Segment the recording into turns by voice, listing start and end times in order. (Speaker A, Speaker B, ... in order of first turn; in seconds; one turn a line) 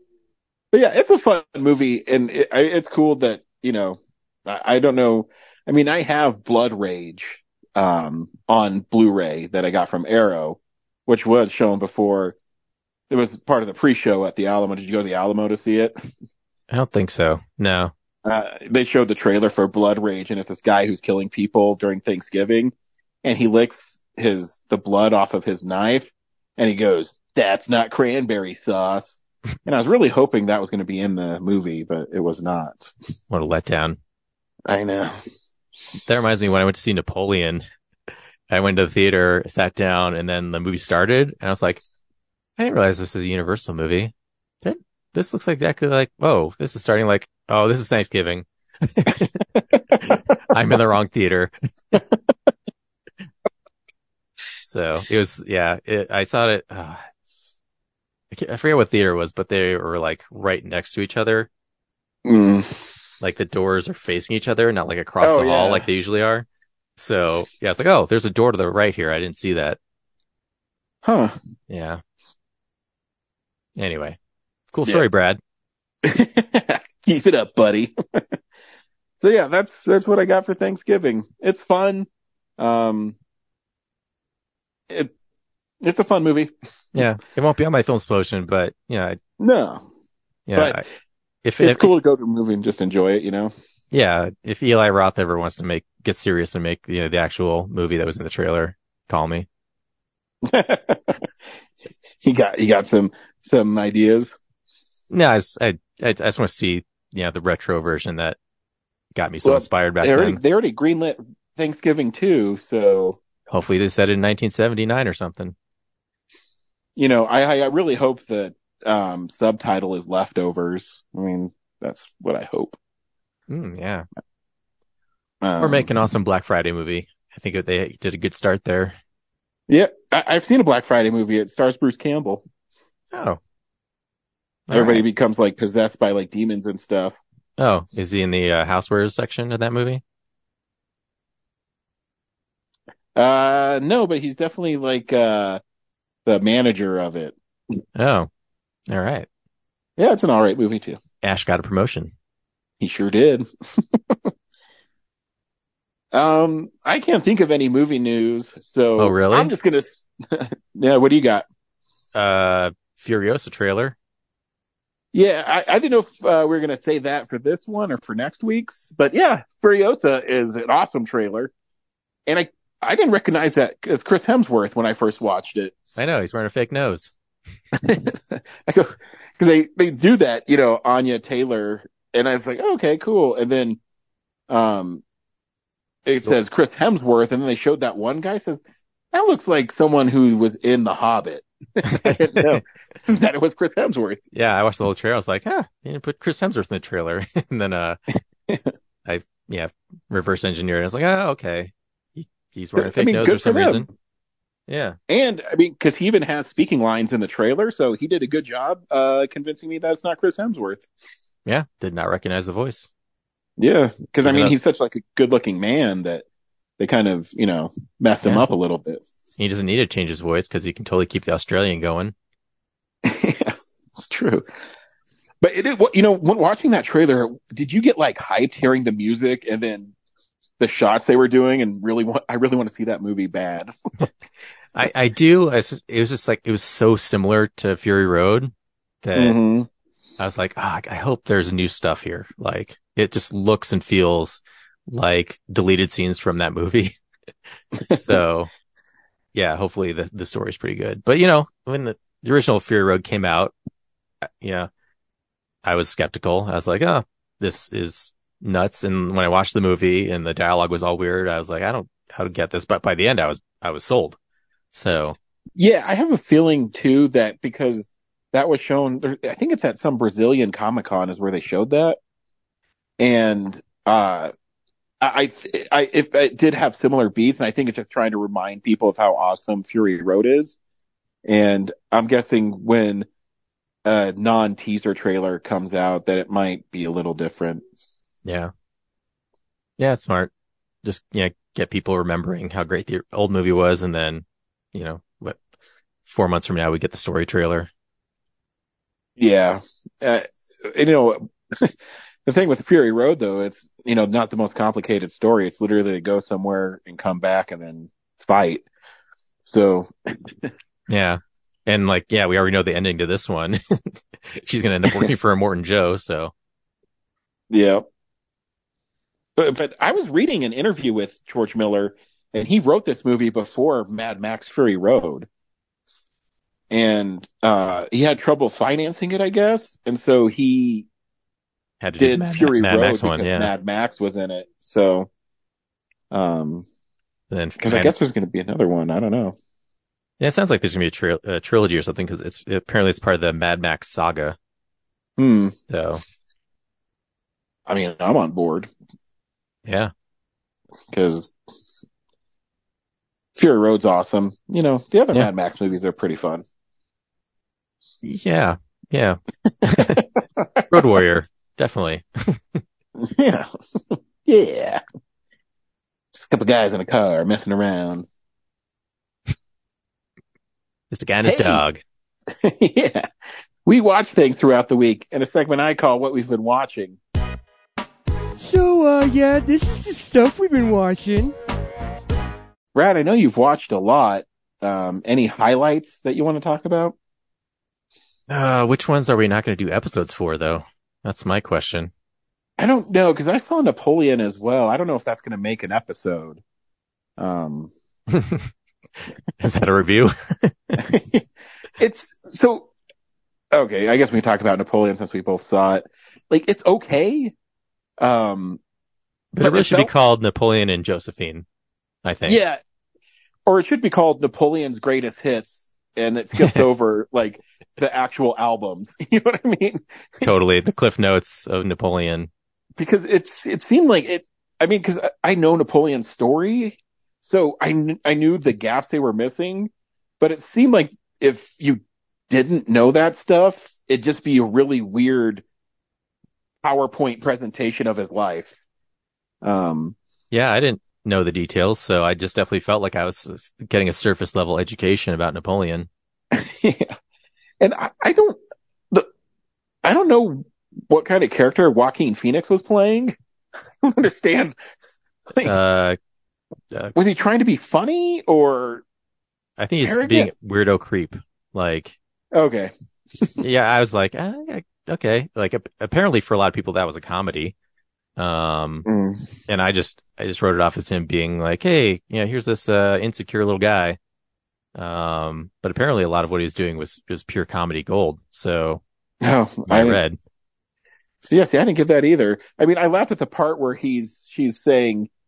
Speaker A: 0.7-12.3
Speaker A: 13.1-15.9
Speaker B: 16.7-17.9
Speaker A: 18.2-32.9
Speaker B: 33.3-34.0
Speaker A: 34.7-35.2
Speaker B: 36.0-37.6
Speaker B: 38.5-41.8
Speaker B: 42.6-52.0
Speaker B: 54.6-57.5
Speaker B: 58.3-61.5
Speaker A: 62.2-62.9
Speaker B: 63.2-66.5
Speaker A: 65.2-65.8
Speaker B: 67.0-69.8
Speaker A: 71.0-71.3
Speaker B: 71.7-72.0
Speaker B: 73.8-74.2
Speaker B: 74.7-75.4
Speaker A: 76.0-78.2
Speaker A: 79.2-83.2
Speaker A: 84.9-85.1
Speaker A: 85.8-86.5
Speaker B: 86.9-89.2
Speaker A: 89.4-89.8
Speaker B: 90.5-90.8
Speaker A: 90.5-90.8
Speaker B: 91.4-91.9
Speaker A: 91.6-93.5
Speaker B: 93.9-99.5
Speaker A: 100.4-101.3
Speaker A: 102.2-104.3
Speaker B: 105.1-108.4
Speaker B: 109.1-110.4
Speaker A: 109.4-113.2
Speaker B: 113.5-115.5
Speaker A: 117.0-122.8
Speaker B: 123.5-124.1
Speaker A: 125.4-125.9
Speaker B: 125.6-128.9
Speaker A: 129.7-132.4
Speaker B: 133.1-133.4
Speaker B: 134.7-135.0
Speaker A: 134.7-137.2
Speaker B: 137.6-140.0
Speaker A: 143.2-145.6
Speaker A: 146.2-147.3
Speaker B: 147.9-148.3
Speaker B: 148.9-149.3
Speaker A: 150.0-151.0
Speaker B: 151.2-152.1
Speaker A: 152.8-154.3
Speaker A: 156.1-161.4
Speaker B: 159.0-159.5
Speaker B: 162.1-163.9
Speaker A: 165.1-171.5
Speaker A: 172.3-175.8
Speaker B: 176.0-177.1
Speaker A: 177.8-183.8
Speaker A: 184.5-185.0
Speaker A: 186.1-194.2
Speaker B: 191.8-192.6
Speaker B: 194.3-198.0
Speaker B: 199.1-203.8
Speaker A: 202.8-203.9
Speaker B: 204.7-205.0
Speaker A: 205.1-210.9
Speaker B: 211.4-212.9
Speaker A: 213.6-216.2
Speaker B: 214.2-214.5
Speaker A: 216.8-219.0
Speaker B: 219.4-222.1
Speaker A: 223.0-224.5
Speaker A: 225.4-229.9
Speaker A: 230.6-233.7
Speaker B: 234.7-238.5
Speaker B: 239.0-239.4
Speaker A: 239.1-239.7
Speaker B: 240.2-246.9
Speaker A: 247.9-248.2
Speaker B: 247.9-248.5
Speaker B: 249.3-253.5
Speaker B: 254.4-254.7
Speaker B: 255.6-264.2
Speaker B: 264.7-265.2
Speaker A: 265.6-272.0
Speaker A: 273.0-274.3
Speaker A: 275.0-280.6
Speaker A: 281.2-283.1
Speaker A: 283.8-287.6
Speaker B: 288.2-288.5
Speaker B: 289.8-290.3
Speaker B: 290.8-295.4
Speaker B: 296.1-297.7
Speaker A: 299.2-308.6
Speaker A: 309.4-310.5
Speaker B: 310.9-316.3
Speaker A: 317.5-317.8
Speaker A: 319.4-325.3
Speaker A: 326.7-330.9
Speaker B: 331.8-333.5
Speaker A: 332.0-335.1
Speaker A: 336.1-336.7
Speaker B: 337.3-337.9
Speaker A: 337.6-339.4
Speaker B: 340.2-344.4
Speaker A: 345.2-345.6
Speaker B: 345.7-346.0
Speaker A: 347.7-348.7
Speaker B: 349.6-349.9
Speaker A: 350.9-351.3
Speaker A: 353.4-356.4
Speaker B: 358.0-360.1
Speaker A: 359.8-360.9
Speaker B: 360.7-362.6
Speaker A: 363.0-364.8
Speaker A: 366.1-368.1
Speaker B: 370.9-371.8
Speaker A: 371.2-371.6
Speaker A: 372.3-373.1
Speaker A: 373.6-377.0
Speaker C: 378.4-381.4
Speaker A: 382.7-386.9
Speaker B: 388.3-391.9
Speaker A: 392.6-396.4
Speaker A: 397.2-397.7
Speaker B: 398.1-398.5
Speaker B: 399.4-400.8
Speaker A: 400.8-401.2
Speaker A: 401.8-402.7
Speaker A: 403.5-407.3
Speaker A: 408.0-408.6
Speaker B: 409.3-411.4
Speaker A: 409.4-409.9
Speaker B: 412.0-412.4
Speaker A: 412.2-412.6
Speaker A: 413.4-420.3
Speaker B: 420.2-422.3
Speaker A: 422.8-435.4
Speaker A: 436.6-438.6
Speaker A: 439.4-439.9
Speaker B: 440.3-445.9
Speaker A: 446.3-446.9
Speaker A: 447.6-449.1
Speaker A: 449.8-453.2
Speaker A: 453.8-454.6
Speaker A: 455.3-455.6
Speaker B: 455.4-456.0
Speaker A: 456.9-458.8
Speaker B: 459.6-461.9
Speaker A: 459.8-460.3
Speaker A: 462.3-463.4
Speaker B: 463.4-467.5
Speaker B: 468.2-468.9
Speaker A: 468.9-469.3
Speaker B: 469.5-474.0
Speaker B: 474.8-478.8
Speaker A: 479.2-480.0
Speaker B: 479.7-480.2
Speaker A: 481.2-485.1